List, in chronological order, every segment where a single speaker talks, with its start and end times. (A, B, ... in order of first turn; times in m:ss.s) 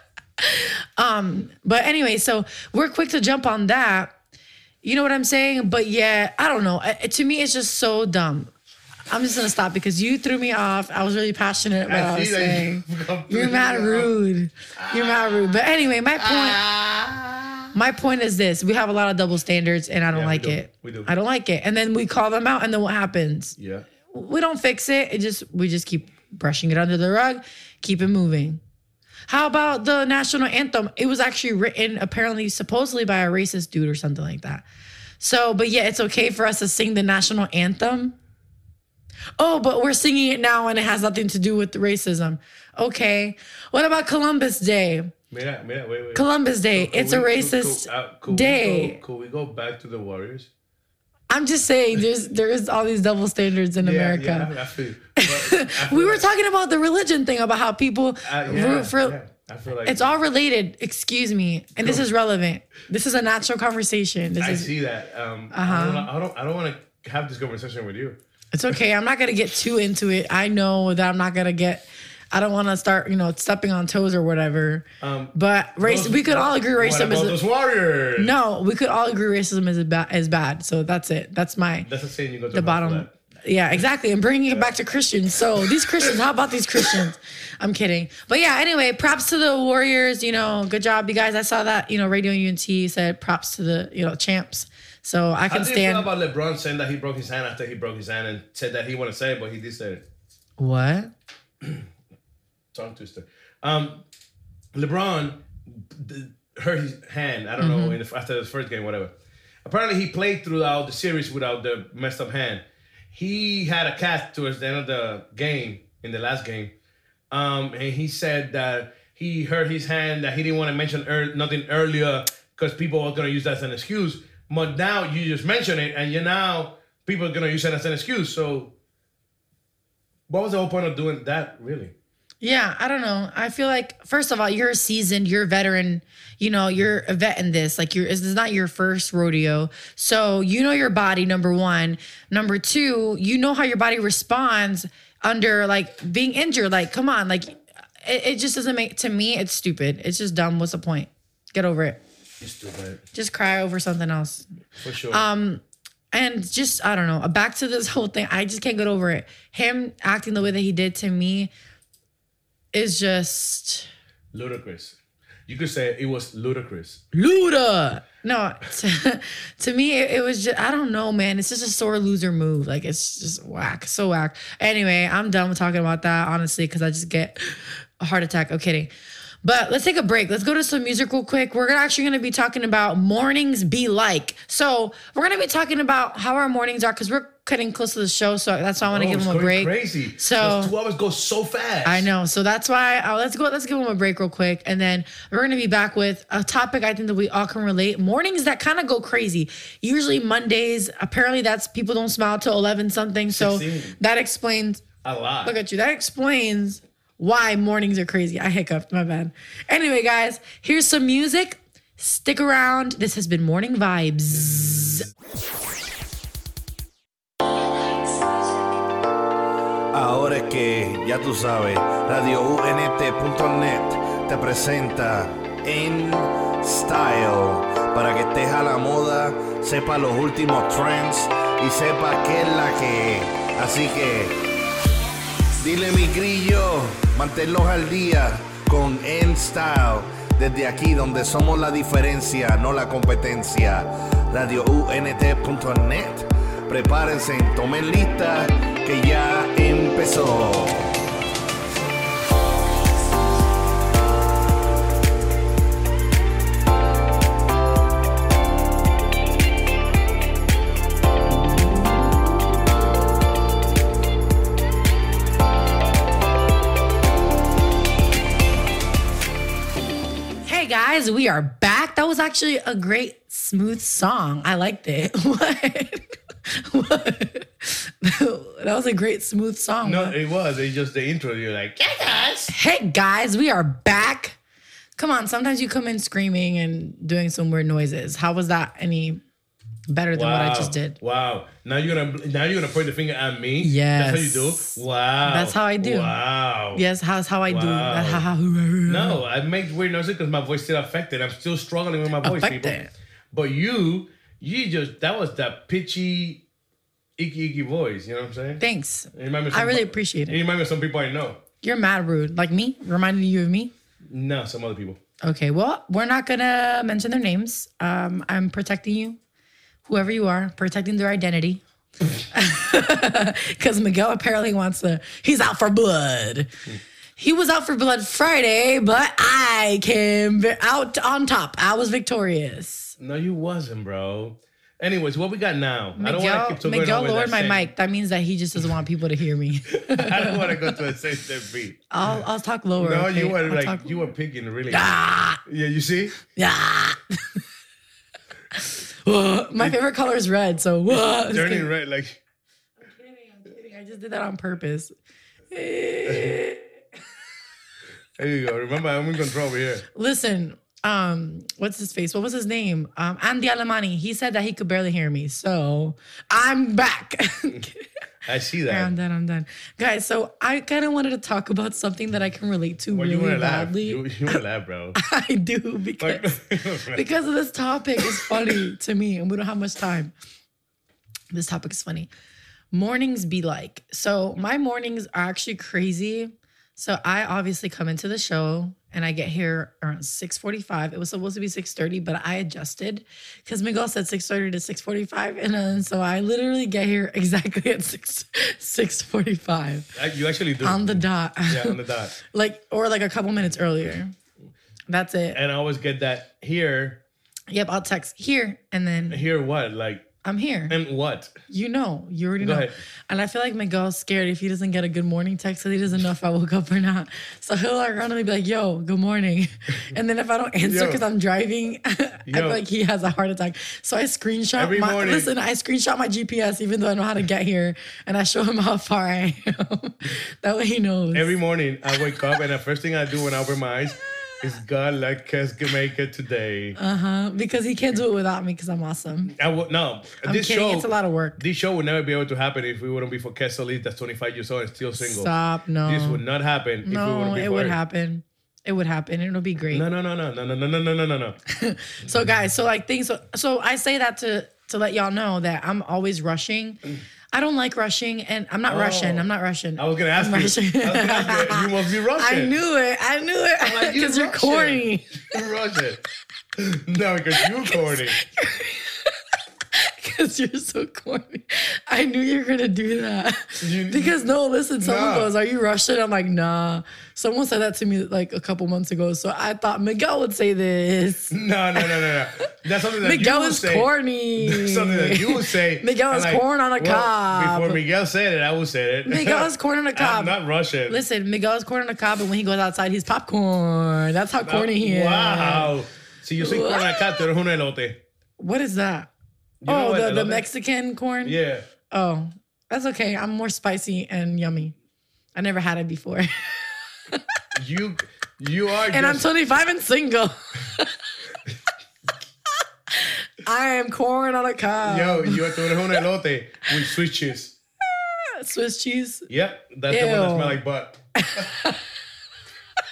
0:00.4-0:04.1 A
0:04.8-0:08.5 A
0:09.1-0:16.6 A
0:11.9-0:14.1 B
0:14.8-0:15.6 B
0:16.2-0:17.7 B
0:17.7-0:23.6 A
0:20.1-0:21.1 B
0:23.6-0:23.8 B
0:24.1-0:28.6 A
0:29.3-0:34.6 A
0:35.2-0:38.1 A
0:39.4-0:45.1 A
0:45.3-0:50.5 B
0:46.1-0:49.0 A
0:51.3-0:54.5 A
0:53.8-0:56.3 B
0:55.2-0:59.2 A
0:58.2-1:00.1 B
0:59.8-1:04.7 A
1:01.8-1:02.1 B
1:04.4-1:08.2 B
1:05.5-1:06.1 A
1:08.5-1:17.4 A
1:15.0-1:18.3 B
1:18.2-1:21.9 A
1:21.8-1:23.1 B
1:22.5-1:36.1 A
1:24.5-1:24.7 B
1:25.8-1:26.1 B
1:35.5-1:40.0 B
1:40.6-1:41.1 A
1:42.7-1:44.0 B
1:44.7-1:49.1 B
1:47.6-1:48.0 A
1:49.6-1:56.7 B
1:57.3-2:08.7 B
2:10.3-2:11.9 B
2:12.4-2:32.0 A
2:32.4-2:33.0 B
2:33.1-2:34.4 A
2:34.8-2:35.2 B
2:35.1-2:41.5 A
2:42.7-2:43.9 A
2:44.3-2:47.0 B
2:47.1-2:58.9 A
2:59.4-3:10.7 A
3:08.9-3:12.1 B
3:11.8-3:24.8 A
3:23.3-3:24.0 B
3:25.0-3:25.5 B
3:25.4-3:35.0 A
3:34.4-3:35.0 B
3:39.9-3:54.4 C
3:55.6-4:10.9 C
4:30.4-4:40.2 A
4:39.8-4:42.5 B
4:42.5-4:44.4 A
4:45.0-4:49.2 A
4:49.9-4:51.0 A
4:50.1-4:56.8 B
4:53.6-4:56.2 A
4:56.7-4:59.2 A
4:57.5-4:58.2 B
4:58.9-5:02.8 B
5:02.2-5:02.9 A
5:03.3-5:06.4 B
5:07.2-5:08.6 B
5:08.6-5:10.4 A
5:09.1-5:11.4 B
5:11.6-5:13.7 A
5:14.1-5:15.0 B
5:15.2-5:19.2 A
5:19.8-5:21.6 A
5:22.3-5:26.5 A
5:27.2-5:33.0 A
5:33.0-5:37.7 B
5:36.0-5:40.8 A
5:39.8-5:41.8 B
5:41.9-5:44.1 A
5:42.8-5:46.2 B
5:44.7-5:45.4 A
5:46.3-5:47.4 A
5:48.5-5:51.7 A
5:50.9-5:52.2 B
5:52.8-5:54.9 A
5:55.5-5:56.8 A
5:56.0-5:56.4 B
5:58.2-5:59.8 B
5:59.9-6:07.8 A
6:08.2-6:08.9 B
6:08.7-6:14.4 A
6:12.9-6:15.0 B
6:15.0-6:20.1 A
6:16.0-6:17.0 B
6:18.0-6:18.3 B
6:21.3-6:22.1 A
6:22.7-6:39.9 A
6:39.9-6:42.1 B
6:40.6-6:44.1 A
6:44.9-6:45.4 A
6:45.3-6:47.0 B
6:47.5-6:49.2 A
6:49.1-6:50.1 B
6:50.2-6:50.8 A
6:50.7-6:51.3 B
6:51.5-7:11.4 A
6:52.4-6:52.8 B
7:00.6-7:01.0 B
7:02.2-7:02.6 B
7:04.6-7:05.3 B
7:11.1-7:16.8 B
7:16.8-7:19.3 A
7:19.4-7:25.3 B
7:20.2-7:21.4 A
7:25.0-7:26.2 A
7:25.8-7:27.8 B
7:26.8-7:29.8 A
7:29.7-7:31.4 B
7:31.5-7:36.8 A
7:37.3-7:45.2 A
7:38.6-7:42.6 B
7:43.6-7:46.0 B
7:46.6-7:48.2 B
7:47.4-7:49.2 A
7:49.7-8:02.1 A
7:53.6-7:54.2 B
7:54.8-7:55.3 B
8:01.3-8:11.0 B
8:03.0-8:07.8 A
8:09.0-8:10.4 A
8:10.9-8:15.7 A
8:14.4-8:18.0 B
8:16.4-8:17.2 A
8:18.4-8:19.1 A
8:19.6-8:20.5 B
8:19.6-8:21.4 A
8:21.2-8:21.6 B
8:21.9-8:24.7 A
8:25.3-8:27.4 A
8:27.5-8:29.3 B
8:28.9-8:31.0 A
8:32.9-8:36.0 A
8:34.8-8:37.6 B
8:37.9-8:39.3 A
8:39.3-8:41.0 B
8:39.9-8:40.6 A
8:41.2-8:41.8 A